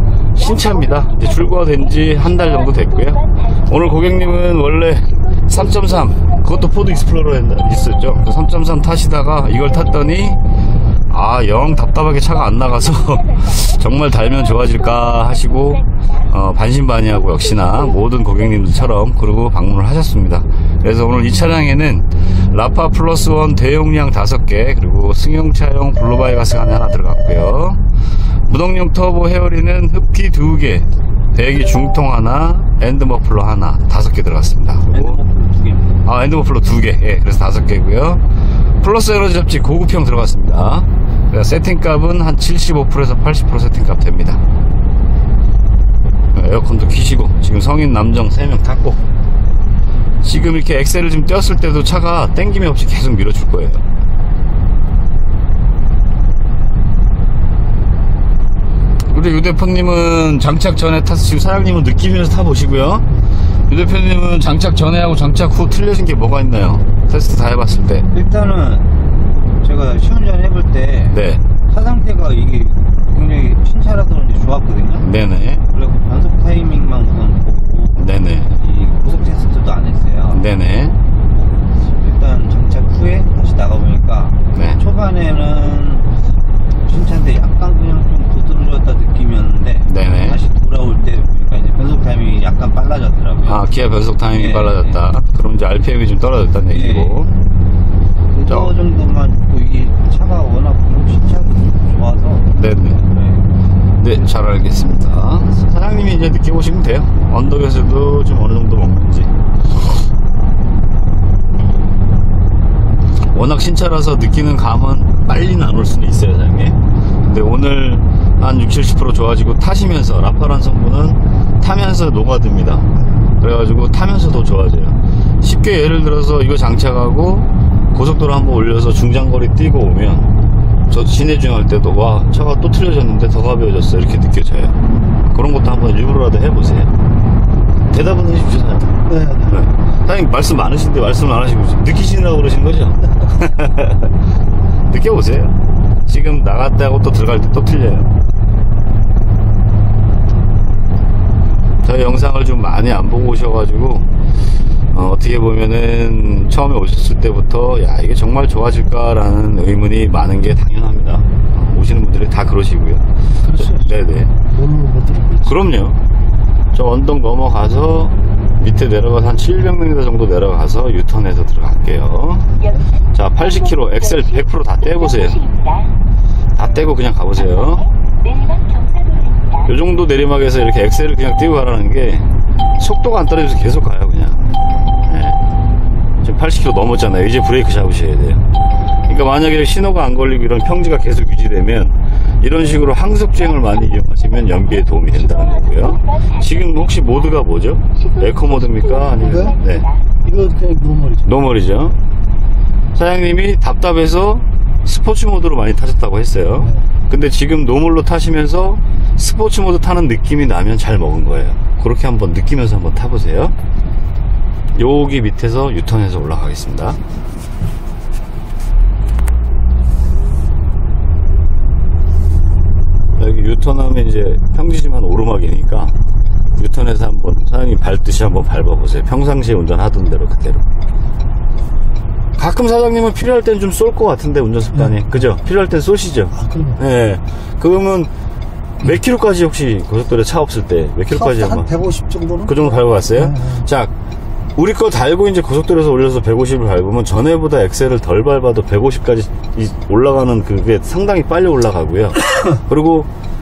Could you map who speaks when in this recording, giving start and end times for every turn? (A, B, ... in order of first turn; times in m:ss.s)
0:00.3-0:10.4 A
0:11.1-0:27.8 A
0:28.5-0:35.2 A
0:34.9-0:36.1 B
0:36.0-0:38.2 A
0:38.8-0:44.4 A
0:46.3-0:49.0 A
0:50.2-0:53.8 A
0:59.1-1:03.1 A
1:03.7-1:08.1 A
1:08.1-1:08.9 B
1:09.6-1:15.1 B
1:11.1-1:11.4 A
1:15.0-1:15.6 A
1:15.7-1:20.4 B
1:18.0-1:18.5 A
1:20.3-1:21.0 A
1:21.8-1:26.1 B
1:24.5-1:24.8 A
1:26.8-1:33.6 B
1:29.9-1:30.4 A
1:33.5-1:37.3 A
1:34.3-1:35.0 B
1:36.7-1:37.2 B
1:38.3-1:43.5 B
1:38.5-1:38.7 A
1:42.5-1:43.0 A
1:44.0-1:49.3 A
1:53.3-2:10.3 A
2:10.9-2:14.8 A
2:15.3-2:16.9 A
2:17.9-2:24.1 A
2:24.9-2:25.5 A
2:26.1-2:28.1 A
2:31.8-2:34.1 A
2:34.9-2:44.3 A
2:44.6-2:45.4 C
2:45.4-2:46.0 A
2:46.7-2:52.5 A
2:53.1-2:55.4 A
2:56.6-2:57.9 A
2:59.6-3:04.4 A
3:05.0-3:05.4 A
3:06.2-3:08.4 A
3:09.1-3:19.9 A
3:20.2-3:21.2 C
3:21.2-3:22.0 A
3:22.9-3:33.5 A
3:34.7-3:37.0 A
3:43.2-3:45.9 A
3:46.6-3:50.6 A
3:52.4-3:58.1 A
3:58.8-4:03.9 A
4:01.7-4:02.4 C
4:04.6-4:13.1 A